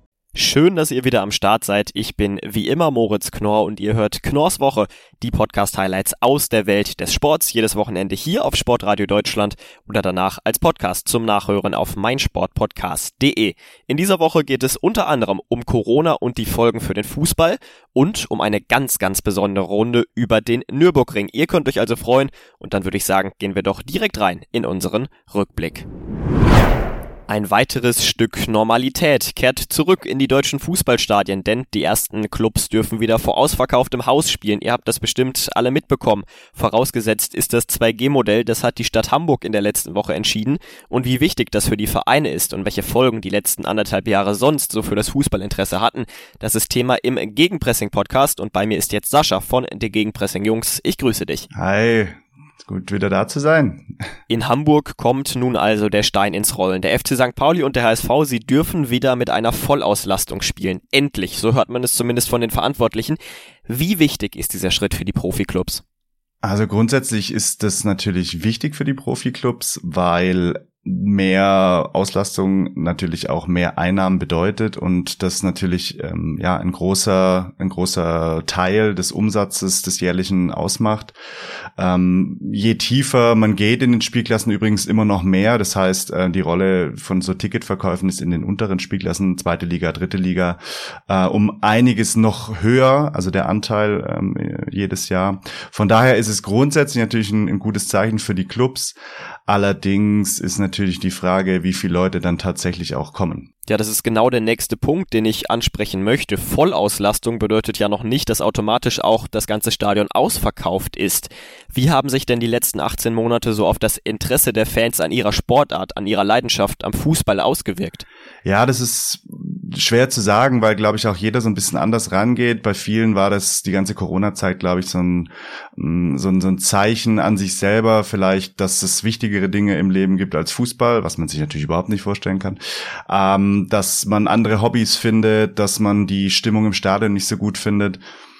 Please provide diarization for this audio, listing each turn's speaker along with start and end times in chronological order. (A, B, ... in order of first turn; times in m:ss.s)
0:00.4-0:25.9 A
0:27.3-0:51.5 A
0:51.5-0:53.9 B
0:54.3-1:05.8 A
1:06.4-1:21.2 B
1:21.8-1:43.5 B
1:43.7-1:58.0 A
1:58.4-2:18.0 B